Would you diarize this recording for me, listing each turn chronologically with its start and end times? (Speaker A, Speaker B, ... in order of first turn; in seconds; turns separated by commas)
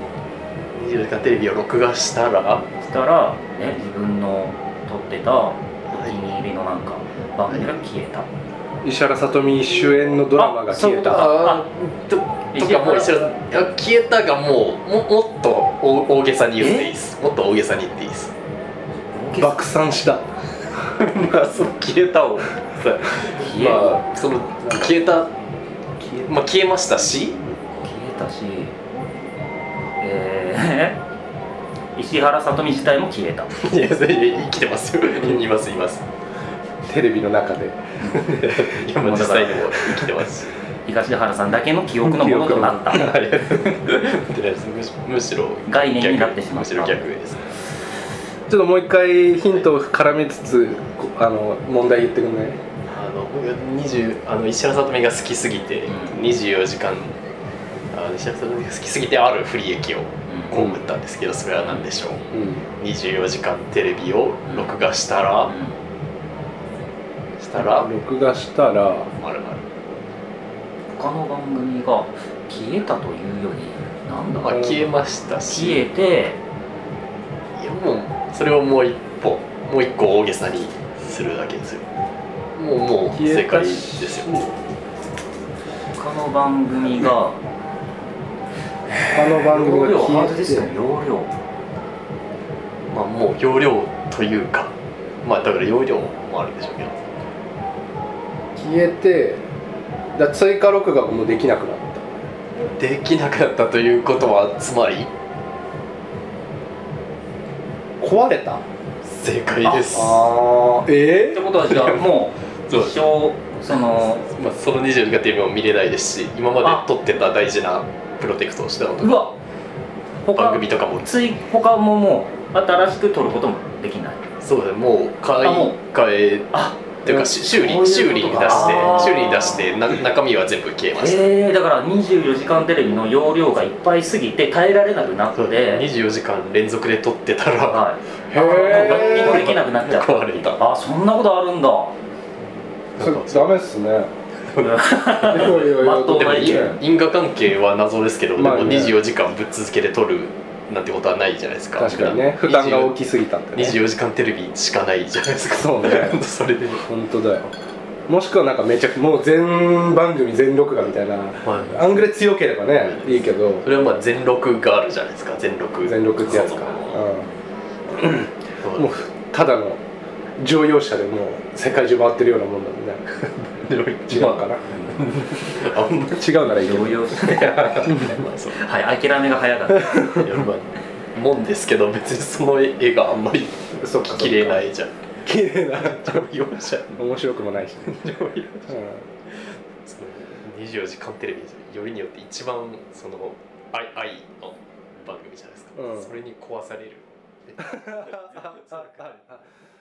Speaker A: 0.8-2.7, Speaker B: 2.8-8.3, Speaker A: 5.9-6.3, Speaker C: 8.8-11.4, Speaker B: 10.3-11.7, Speaker A: 10.9-18.3, Speaker B: 12.5-13.3, Speaker B: 16.6-16.9, Speaker B: 19.1-19.7, Speaker C: 19.4-20.3, Speaker A: 21.0-25.3, Speaker B: 23.3-24.0, Speaker C: 24.6-24.9, Speaker C: 26.0-26.3, Speaker A: 26.2-27.4, Speaker B: 27.8-28.8, Speaker B: 30.0-31.0, Speaker B: 32.0-33.5, Speaker A: 33.6-36.1, Speaker C: 36.9-37.9, Speaker B: 38.0-38.4, Speaker A: 38.1-40.5, Speaker B: 38.9-39.9, Speaker B: 40.9-43.2, Speaker C: 42.0-43.3, Speaker A: 42.9-47.5, Speaker B: 45.7-47.0, Speaker C: 48.5-52.6, Speaker A: 52.9-57.1, Speaker B: 55.9-56.3, Speaker A: 57.9-62.2, Speaker B: 60.3-60.6, Speaker C: 62.3-62.6, Speaker A: 62.8-65.6, Speaker B: 65.5-65.8, Speaker A: 67.4-67.9, Speaker C: 67.6-69.1, Speaker A: 69.2-69.7, Speaker B: 70.9-74.9, Speaker A: 74.3-75.9, Speaker B: 75.5-76.4, Speaker A: 77.6-81.8, Speaker A: 82.6-84.4, Speaker C: 83.1-84.6, Speaker B: 86.0-87.4, Speaker C: 89.1-90.7, Speaker B: 89.3-91.3, Speaker A: 92.9-97.0, Speaker C: 98.6-99.4, Speaker C: 100.2-102.1, Speaker A: 102.8-105.1, Speaker C: 108.0-108.6, Speaker A: 109.0-110.2, Speaker B: 109.7-110.1, Speaker C: 109.9-111.4, Speaker B: 111.3-114.3, Speaker A: 111.5-112.1, Speaker A: 112.7-113.0, Speaker A: 113.7-119.3, Speaker B: 119.0-119.3, Speaker B: 120.2-124.2, Speaker A: 120.3-121.2, Speaker A: 124.4-131.3, Speaker B: 125.4-125.8, Speaker B: 126.5-129.8, Speaker B: 131.0-135.9, Speaker A: 135.4-140.6, Speaker B: 137.7-141.9, Speaker C: 138.3-139.6, Speaker C: 143.0-144.1, Speaker A: 143.0-143.5, Speaker A: 144.5-144.8, Speaker B: 144.6-146.8, Speaker C: 145.2-146.8, Speaker A: 145.3-152.9, Speaker C: 148.4-149.0, Speaker C: 151.8-153.8, Speaker A: 153.6-156.9, Speaker C: 155.5-156.2, Speaker C: 156.9-157.5, Speaker C: 158.1-163.7, Speaker A: 161.4-161.8, Speaker A: 162.8-167.1, Speaker C: 165.9-167.3, Speaker C: 167.9-169.8, Speaker A: 168.6-169.0, Speaker C: 170.4-173.0, Speaker A: 173.4-176.5, Speaker C: 174.1-175.5, Speaker C: 176.1-178.2, Speaker B: 176.5-180.2, Speaker A: 177.2-178.6, Speaker C: 179.7-180.3, Speaker A: 180.1-184.9, Speaker C: 183.8-184.6, Speaker C: 185.2-186.2, Speaker A: 185.7-187.0, Speaker C: 187.0-188.0, Speaker A: 187.9-188.8, Speaker C: 188.7-189.0, Speaker A: 189.8-199.4, Speaker C: 195.8-196.1, Speaker C: 197.7-199.4